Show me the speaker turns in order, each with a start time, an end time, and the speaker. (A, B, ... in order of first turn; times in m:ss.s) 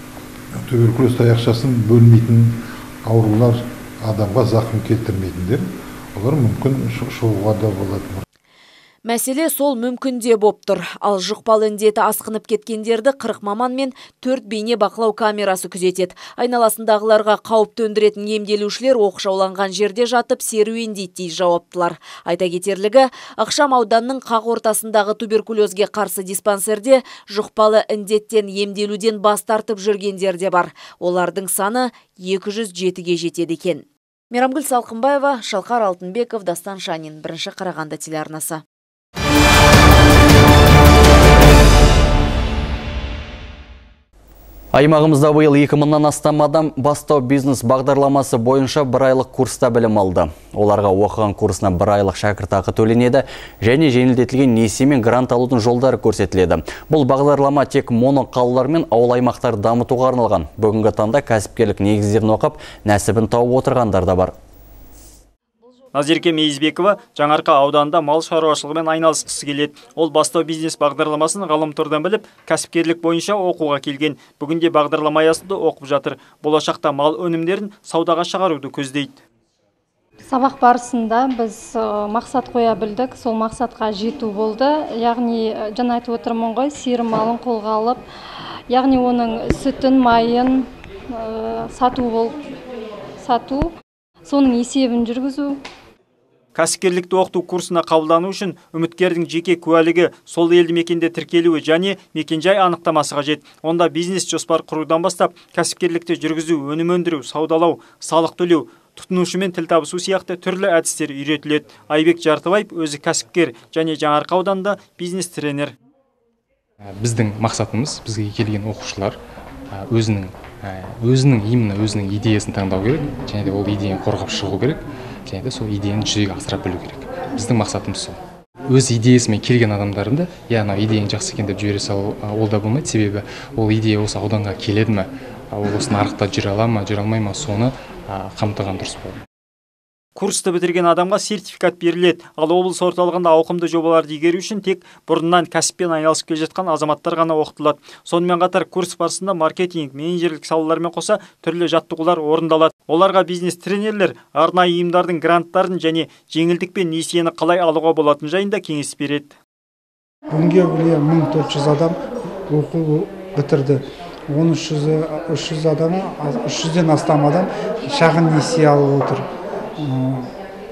0:00.6-0:08.2 A
0:09.0-0:38.6 B
0:44.7-1:04.3 C
1:05.9-1:19.2 D
1:20.3-1:28.1 E
1:28.7-1:32.4 E
1:33.2-1:33.7 E
1:34.2-1:35.6 E
1:36.6-1:55.7 D
1:56.8-1:59.2 F
1:59.7-2:19.2 F
2:20.2-2:39.3 D
2:40.3-2:42.0 G
2:42.5-2:43.8 G
2:44.3-2:49.2 G
2:49.8-2:50.3 G